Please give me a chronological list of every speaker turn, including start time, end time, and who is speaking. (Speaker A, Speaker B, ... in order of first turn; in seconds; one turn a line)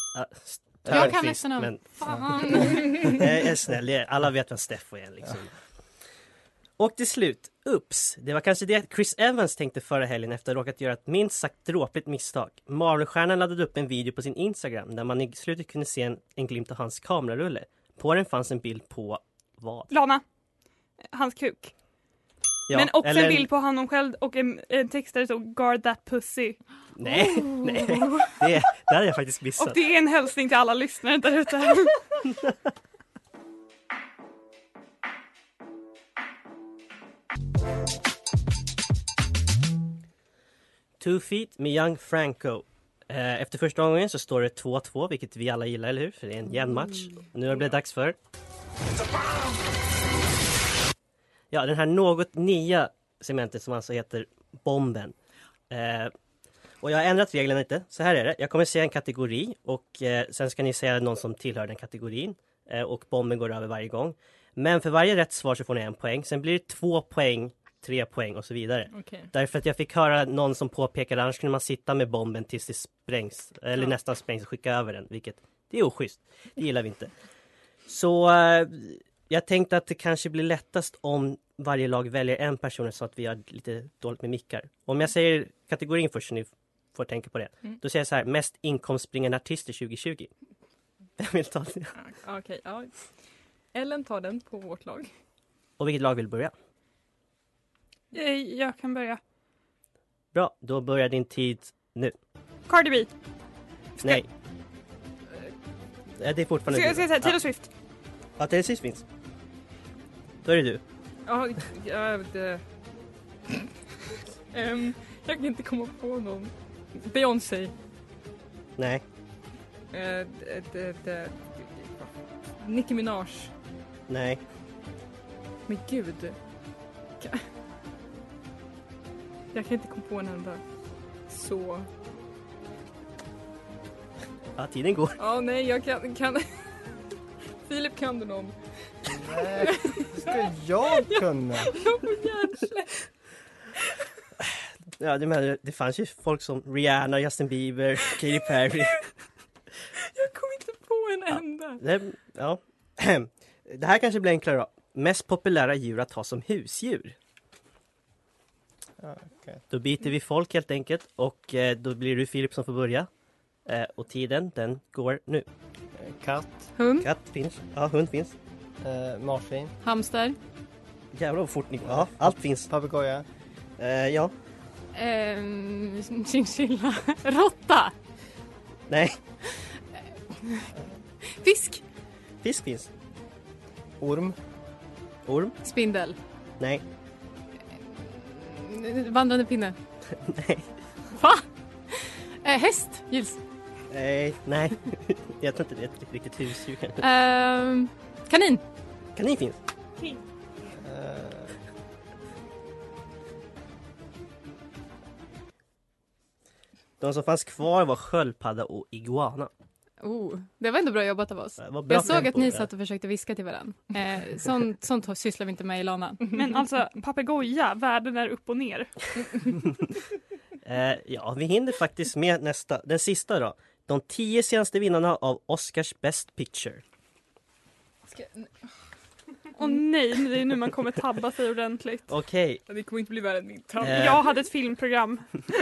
Speaker A: 0.1-1.9
Speaker B: 0.9-1.2
Speaker C: 0.9-3.2
Speaker A: 3.0-5.5
Speaker A: 6.8-19.9
Speaker D: 19.9-20.2
Speaker D: 21.0-21.7
Speaker A: 22.7-23.5
Speaker D: 22.7-28.3
Speaker A: 27.0-29.8
Speaker D: 29.6-32.1
Speaker A: 41.0-48.2
Speaker A: 51.5-55.1
Speaker A: 55.7-56.1
Speaker A: 56.8-77.1
Speaker E: 68.9-69.3
Speaker A: 77.9-90.3
Speaker A: 91.2-92.0
Speaker E: 91.9-93.1
Speaker E: 93.7-95.1
Speaker A: 95.8-96.5
Speaker D: 98.1-99.2
Speaker A: 100.3-102.1
Speaker D: 102.7-103.1
Speaker A: 106.2-107.4
Speaker D: 106.7-107.7
Speaker A: 108.4-109.0
Speaker A: 110.4-110.8
Speaker E: 111.2-112.6
Speaker E: 114.5-117.7
Speaker A: 118.8-119.0
Speaker E: 119.9-123.5
Speaker A: 124.1-124.4
Speaker E: 125.7-126.4
Speaker E: 127.2-127.5
Speaker E: 129.5-130.6
Speaker E: 131.3-131.9
Speaker A: 134.6-135.2
Speaker E: 135.2-137.1
Speaker E: 137.7-138.6
Speaker B: 139.1-141.8
Speaker E: 139.6-140.5
Speaker E: 141.0-143.1
Speaker A: 144.4-149.1
Speaker E: 150.1-151.8
Speaker A: 151.3-157.1
Speaker B: 159.0-159.6
Speaker A: 159.7-163.1
Speaker A: 163.6-165.4
Speaker B: 166.0-166.8
Speaker C: 166.7-167.1
Speaker A: 167.0-168.3
Speaker B: 168.8-169.7
Speaker C: 169.8-170.3
Speaker A: 171.1-172.7
Speaker B: 171.8-173.2
Speaker A: 173.8-174.3
Speaker C: 174.9-177.9
Speaker A: 178.9-179.2
Speaker C: 180.4-180.7
Speaker C: 181.3-181.8
Speaker A: 182.4-182.9
Speaker B: 184.0-184.3
Speaker A: 185.2-185.5
Speaker C: 185.6-186.2
Speaker C: 187.9-189.8
Speaker A: 190.2-190.7
Speaker C: 191.1-193.4
Speaker A: 193.9-197.0
Speaker C: 197.0-198.6
Speaker A: 199.2-199.6
Speaker B: 200.8-201.5
Speaker A: 207.0-209.5
Speaker C: 210.0-216.2
Speaker A: 211.6-212.7
Speaker D: 216.3-218.9
Speaker A: 220.6-226.8
Speaker E: 228.1-228.8
Speaker D: 229.6-232.1
Speaker A: 232.1-232.6
Speaker E: 232.7-234.2
Speaker A: 233.8-234.2
Speaker D: 233.8-235.3